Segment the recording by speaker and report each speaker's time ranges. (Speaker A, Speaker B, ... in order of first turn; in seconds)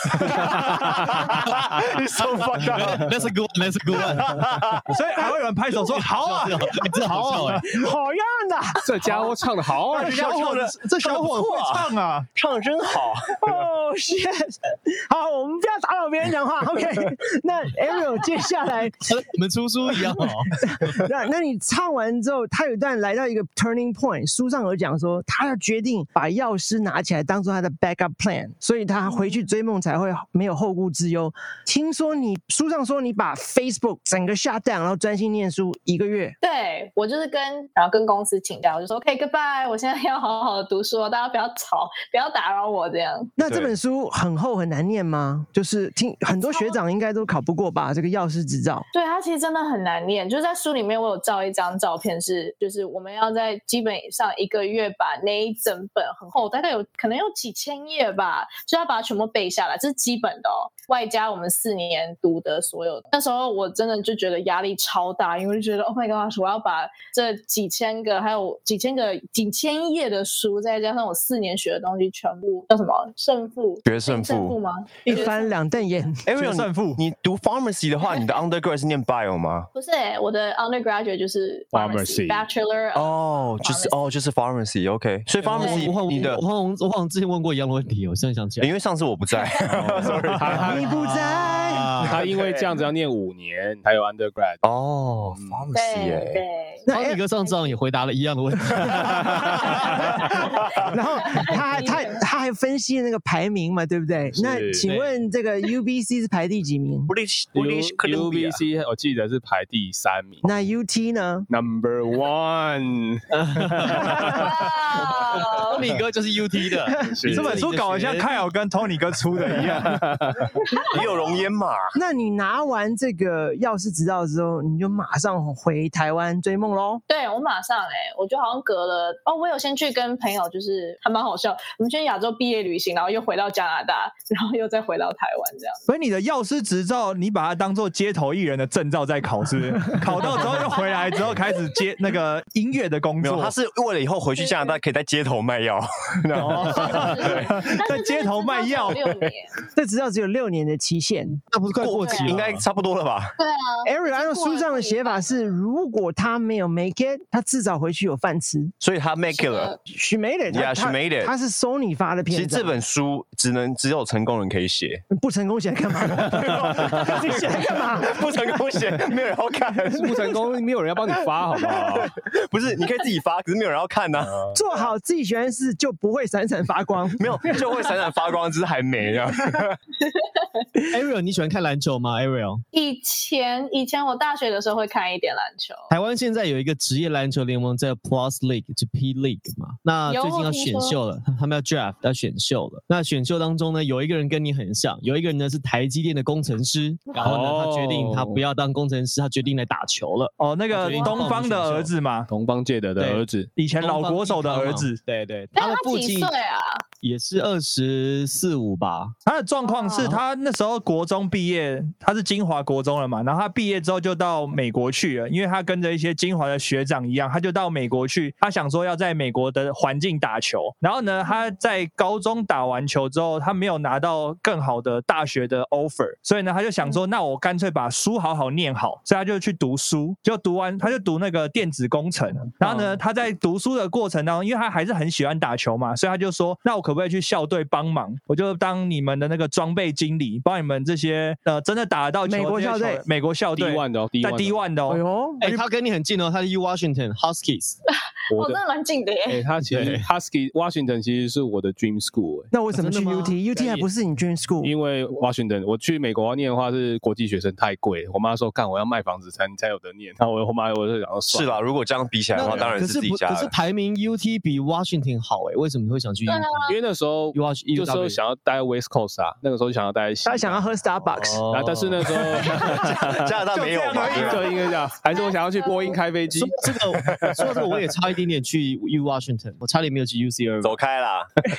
Speaker A: 0.1-3.2, 4.0-4.9, 9.9-13.6, 73.8-74.6, 76.3-79.7, 82.9-86.4, 88.6-90.7, 92.1-92.7, 94.6-96.4, 107.1-108.6, 120.9-122.0, 143.2-147.7, 151.8-153.3, 158.8-159.8, 160.5-161.3, 162.3-165.0, 166.2-170.3, 171.8-174.5, 177.2-179.8, 261.3-263.5, 272.6-274.5, 280.6-281.3
Speaker B: 0.9-1.4, 2.5-4.5, 5.9-7.6, 19.1-20.9, 85.4-88.7, 90.1-92.3, 96.9-100.4, 113.3-118.4, 151.5-152.6, 180.9-182.6, 185.9-201.9, 203.0-203.3, 203.8-206.3, 207.0-209.1, 245.4-247.8, 249.6-250.1, 252.7-253.9, 262.3-266.7, 267.3-268.2, 271.2-272.2, 276.3-280.8
Speaker C: 4.8-7.9, 9.9-12.3, 76.3-77.0, 117.3-120.4, 135.9-143.5, 146.3-149.1, 200.4-202.3, 203.6-205.0, 209.3-245.0, 273.5-274.6
Speaker D: 7.7-9.2, 13.4-19.1, 20.6-36.4, 43.4-48.9, 75.0-76.2, 90.7-91.9, 96.9-97.2, 100.9-107.1, 110.4-111.5, 122.0-127.0, 149.7-151.4, 153.8-158.7, 159.9-162.8, 165.1-168.2, 174.5-177.3, 242.3-243.1, 244.9-245.6, 252.5-254.7, 270.2-271.4
Speaker E: 8.8-10.2, 81.7-82.5, 89.9-90.9, 92.0-94.6, 95.3-95.7, 104.4-104.9, 107.5-110.5, 111.5-114.5, 117.0-117.6, 119.9-120.3, 169.9-172.1, 197.2-198.4, 200.9-201.4, 202.3-203.5, 243.6-244.7, 248.3-248.6, 249.3-252.5, 254.6-261.6, 262.4-262.7, 266.7-270.6, 271.5-273.3, 274.0-277.2
Speaker F: 29.1-29.4, 36.4-43.3, 46.4-46.8, 48.9-75.9, 79.7-84.0, 85.6-85.9, 95.7-96.9, 97.4-97.8, 101.2-102.2, 114.4-115.8, 127.1-135.9, 140.7-141.3, 144.4-144.8, 146.6-149.5, 152.0-152.4, 153.4-155.5, 159.3-159.8, 182.7-185.9, 190.1-191.0, 205.6-206.8, 209.6-210.2, 247.9-249.4, 266.3-266.8, 275.2-276.0